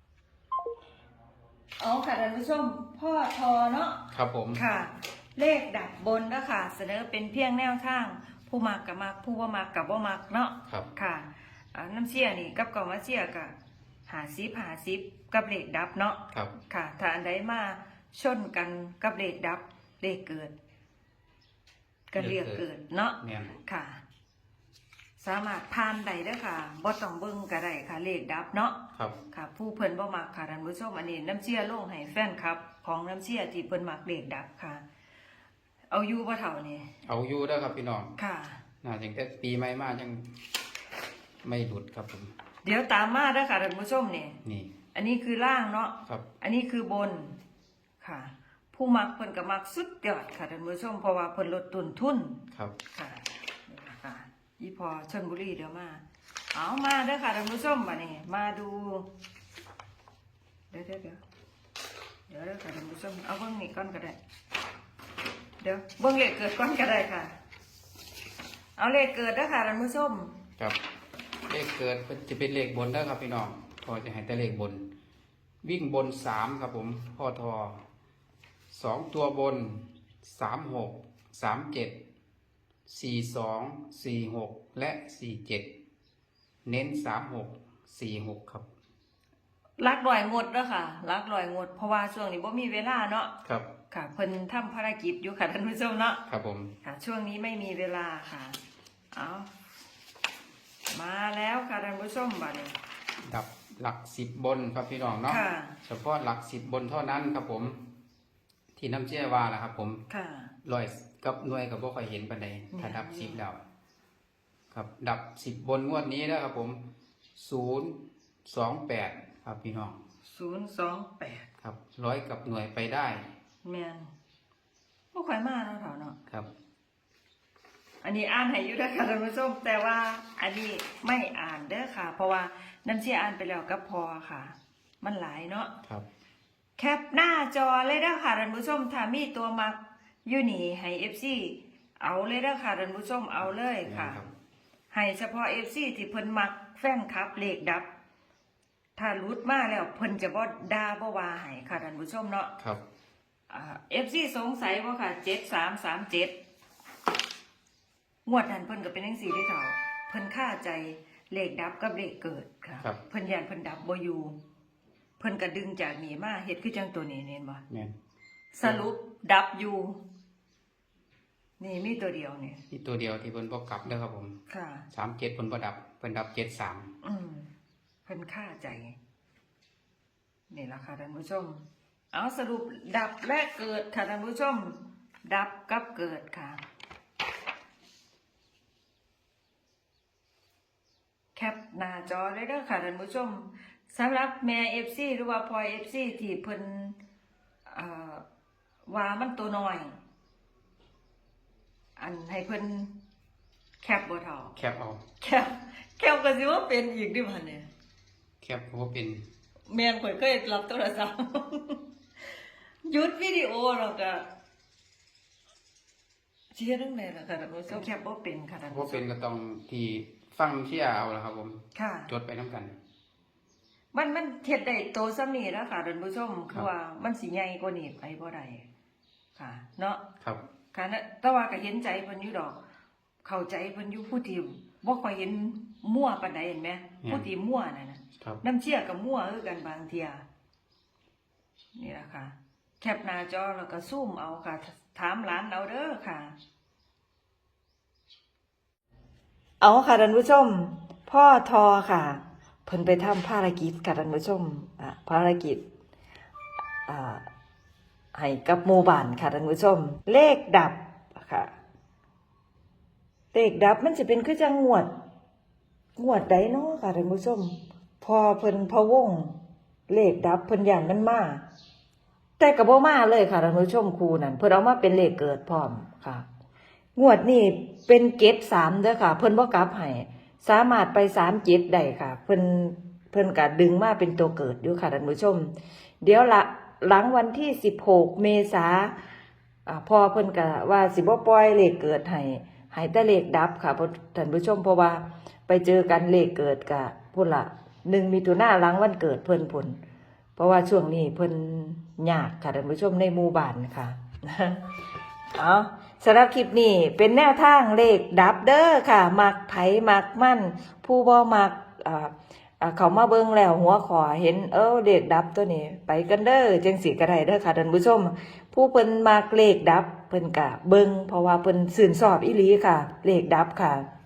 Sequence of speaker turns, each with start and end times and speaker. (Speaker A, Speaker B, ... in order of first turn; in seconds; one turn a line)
Speaker A: 1.8-4.0
Speaker B: 4.1-4.6
Speaker A: 4.5-13.5
Speaker A: 14.1-20.6
Speaker A: 22.1-24.0
Speaker B: 22.2-22.7
Speaker B: 23.2-23.5
Speaker A: 25.2-28.8
Speaker A: 29.3-34.8
Speaker A: 35.9-36.9
Speaker B: 37.0-38.1
Speaker A: 38.2-38.6
Speaker B: 38.8-40.4
Speaker B: 41.4-42.3
Speaker A: 42.6-44.4
Speaker B: 44.4-44.7
Speaker A: 44.9-47.4
Speaker A: 48.0-52.4
Speaker A: 52.9-59.1
Speaker A: 60.7-61.2
Speaker A: 62.3-64.2
Speaker A: 65.6-67.3
Speaker A: 68.8-70.3
Speaker B: 71.5-74.9
Speaker B: 75.6-77.8
Speaker B: 78.7-82.0
Speaker B: 82.9-85.7
Speaker B: 86.7-88.7
Speaker A: 89.8-93.3
Speaker A: 93.9-96.2
Speaker B: 96.3-96.7
Speaker A: 96.8-98.6
Speaker A: 99.1-99.5
Speaker A: 100.9-102.8
Speaker B: 103.2-107.8
Speaker A: 105.3-105.8
Speaker B: 108.8-110.0
Speaker A: 110.1-110.5
Speaker B: 110.6-113.6
Speaker A: 112.7-113.4
Speaker B: 114.7-116.8
Speaker B: 117.4-120.0
Speaker A: 120.3-121.5
Speaker B: 121.6-123.2
Speaker A: 123.6-124.1
Speaker A: 125.1-126.2
Speaker A: 128.0-135.7
Speaker A: 136.8-144.2
Speaker B: 143.8-144.3
Speaker A: 144.9-147.9
Speaker A: 149.0-152.5
Speaker A: 153.5-156.3
Speaker A: 158.3-164.4
Speaker A: 165.2-167.6
Speaker B: 167.7-167.9
Speaker A: 168.5-170.0
Speaker A: 171.6-172.6
Speaker B: 172.7-174.4
Speaker A: 174.5-174.9
Speaker B: 174.9-176.9
Speaker A: 177.0-177.5
Speaker A: 178.1-179.0
Speaker A: 180.5-186.6
Speaker A: 191.3-197.0
Speaker A: 197.7-198.2
Speaker A: 198.9-200.0
Speaker A: 202.0-202.9
Speaker A: 203.8-204.6
Speaker B: 204.6-205.0
Speaker A: 205.2-207.7
Speaker B: 208.4-209.2
Speaker A: 209.7-211.8
Speaker A: 212.8-214.3
Speaker A: 216.5-219.1
Speaker B: 218.7-222.8
Speaker A: 221.8-222.1
Speaker A: 223.9-228.7
Speaker A: 229.4-230.0
Speaker A: 230.7-232.6
Speaker A: 233.2-240.2
Speaker A: 241.8-246.4
Speaker A: 249.6-255.6
Speaker A: 256.9-257.2
Speaker A: 258.1-261.5
Speaker A: 263.3-264.9
Speaker A: 266.0-269.4
Speaker A: 269.9-271.4
Speaker A: 272.4-276.2
Speaker A: 277.0-288.9
Speaker A: 289.7-299.8
Speaker A: 300.4-304.6
Speaker A: 305.3-323.9